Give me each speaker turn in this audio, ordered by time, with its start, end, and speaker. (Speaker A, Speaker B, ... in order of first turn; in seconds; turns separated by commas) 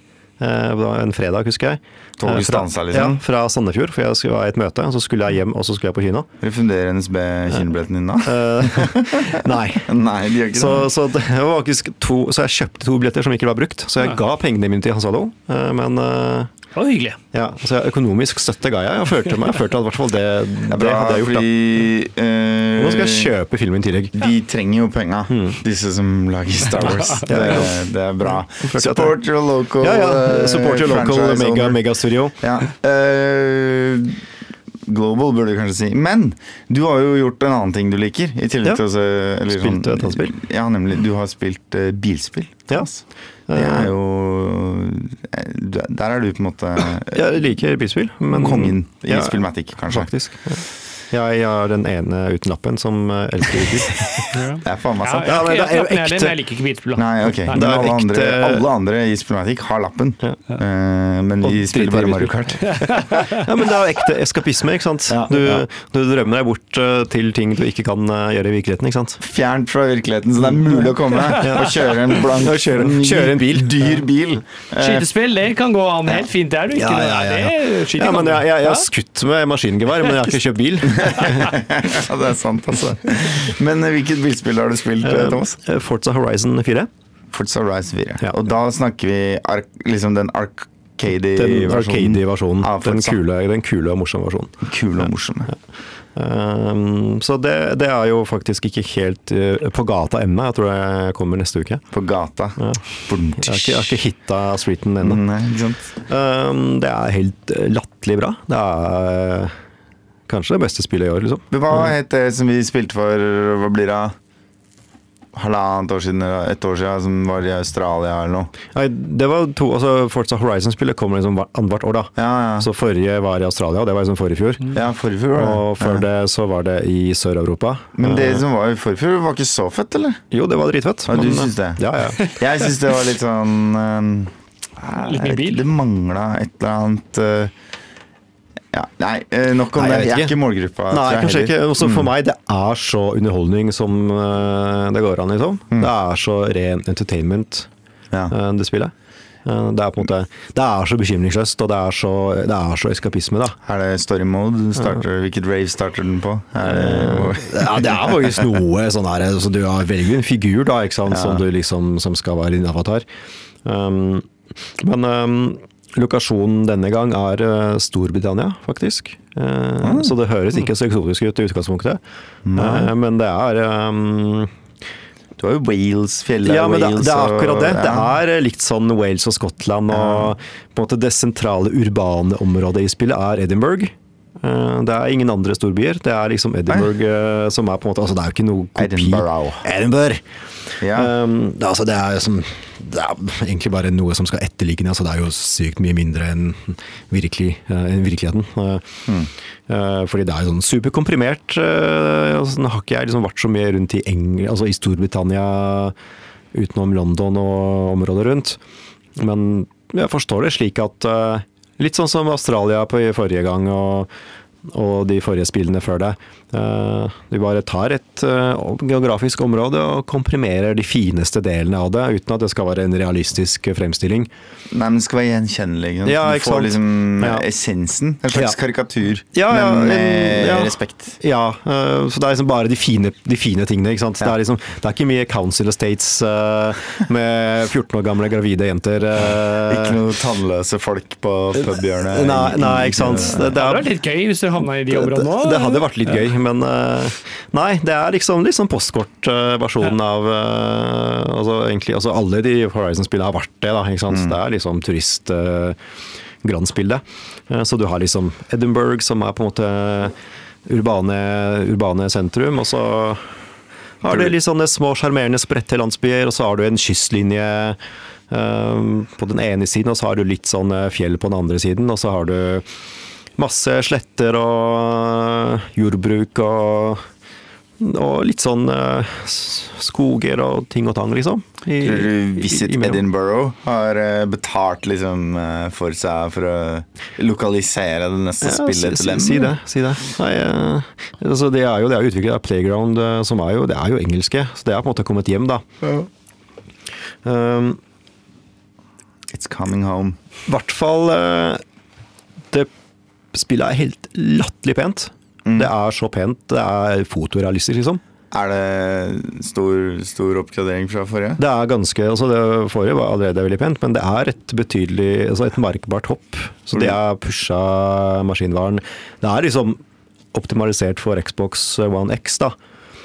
Speaker A: 0.4-6.3, Speaker B: 2.2-3.2, Speaker B: 6.4-10.9, Speaker A: 8.2-9.9, Speaker A: 10.5-16.5, Speaker C: 16.8-17.1, Speaker A: 17.3-21.5, Speaker B: 20.7-23.3, Speaker A: 22.8-24.1, Speaker B: 24.1-31.8, Speaker A: 25.3-25.6, Speaker A: 27.2-27.8, Speaker A: 28.3-29.1, Speaker A: 29.8-32.4, Speaker B: 32.4-34.2, Speaker B: 34.9-47.3, Speaker A: 39.5-40.4, Speaker A: 43.5-43.9, Speaker A: 47.1-54.1, Speaker B: 48.3-50.1, Speaker B: 54.2-55.5, Speaker C: 54.3-57.6, Speaker A: 55.2-56.4, Speaker B: 57.0-63.3, Speaker A: 57.5-58.6, Speaker A: 61.4-62.7, Speaker C: 62.7-63.4, Speaker A: 63.3-69.2, Speaker B: 65.1-65.6, Speaker B: 69.2-75.0, Speaker A: 70.4-74.0, Speaker C: 71.1-71.9, Speaker C: 74.8-78.9, Speaker A: 76.7-81.6, Speaker B: 80.9-85.5, Speaker A: 85.0-86.9, Speaker B: 87.3-93.2, Speaker A: 91.3-95.5, Speaker B: 94.7-95.5, Speaker A: 96.1-101.8, Speaker B: 101.9-104.0, Speaker A: 102.6-102.8, Speaker A: 103.4-105.2, Speaker B: 105.0-105.9, Speaker A: 106.1-109.5, Speaker A: 110.3-111.9, Speaker B: 111.5-114.2, Speaker B: 115.3-118.5, Speaker A: 118.7-124.8, Speaker B: 122.2-122.7, Speaker B: 124.7-126.0, Speaker A: 125.3-128.4, Speaker B: 128.0-130.2, Speaker A: 130.3-132.2, Speaker B: 131.1-137.5, Speaker C: 135.0-135.7, Speaker B: 138.7-142.1, Speaker A: 139.7-140.4, Speaker A: 140.9-147.7, Speaker A: 148.3-148.9, Speaker A: 149.4-153.6, Speaker B: 153.6-158.1, Speaker A: 154.8-155.0, Speaker A: 156.6-163.1, Speaker B: 161.1-161.4, Speaker A: 163.6-164.3, Speaker A: 164.8-172.0, Speaker B: 169.8-170.1, Speaker B: 172.4-172.9, Speaker A: 172.6-174.5, Speaker B: 175.4-178.1, Speaker A: 176.4-190.2, Speaker B: 179.9-180.3, Speaker B: 188.8-189.6, Speaker B: 190.8-191.1, Speaker A: 190.8-198.8, Speaker A: 199.7-205.9, Speaker A: 206.5-208.6, Speaker A: 209.2-214.1, Speaker A: 214.6-224.3, Speaker B: 224.7-231.2, Speaker A: 226.0-227.4, Speaker A: 228.3-228.6, Speaker A: 229.3-240.0, Speaker B: 239.6-243.5, Speaker A: 241.5-243.8, Speaker C: 243.3-246.2, Speaker A: 244.9-255.8, Speaker A: 256.4-260.1, Speaker A: 260.6-263.4, Speaker A: 264.0-267.8, Speaker B: 264.1-264.3, Speaker A: 268.3-272.6, Speaker A: 273.4-277.0, Speaker A: 277.8-283.0, Speaker B: 281.8-289.5, Speaker A: 288.4-295.6, Speaker A: 297.2-297.8, Speaker B: 299.3-300.2, Speaker A: 300.5-301.6, Speaker A: 303.3-308.0, Speaker B: 308.3-311.4, Speaker A: 311.4-319.8, Speaker A: 320.3-322.6